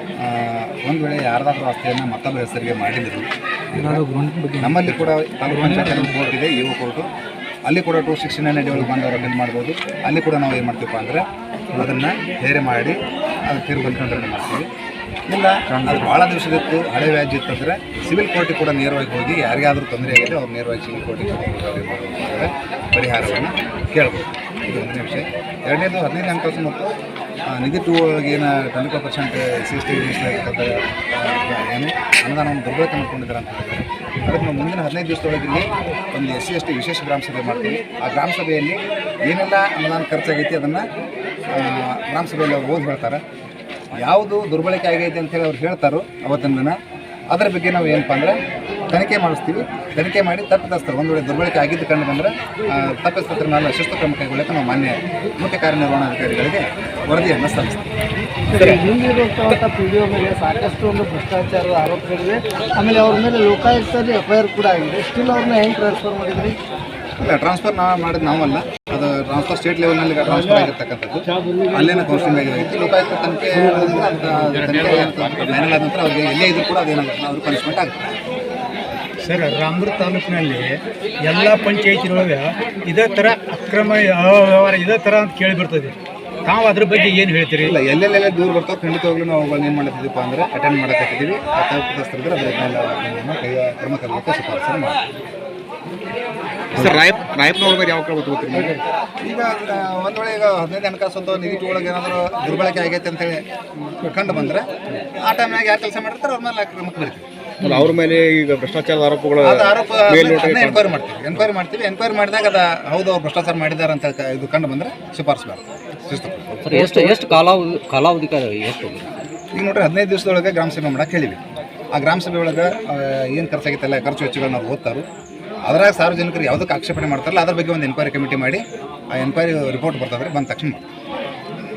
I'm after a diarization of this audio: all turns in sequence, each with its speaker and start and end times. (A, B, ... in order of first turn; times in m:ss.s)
0:00.2-0:07.1 A
0:04.2-0:04.8 B
0:07.7-0:13.0 A
0:13.5-0:14.7 A
0:15.3-0:26.9 A
0:27.5-0:40.8 A
0:41.5-0:43.2 A
0:43.9-0:46.8 A
0:47.3-0:48.4 A
0:48.9-0:57.8 A
0:58.5-1:06.6 C
0:58.5-0:58.8 A
1:07.2-1:18.2 A
1:10.3-1:10.6 B
1:14.6-1:15.7 B
1:19.2-1:25.9 B
1:26.5-1:27.7 B
1:27.6-1:35.0 A
1:36.8-1:37.1 A
1:36.8-1:38.8 D
1:39.2-1:43.4 A
1:44.0-1:44.6 A
1:45.2-1:47.3 A
1:47.6-1:50.9 D
1:49.4-1:56.9 A
1:56.6-1:59.1 E
1:59.6-2:01.4 A
2:01.9-2:05.0 A
2:05.7-2:10.8 A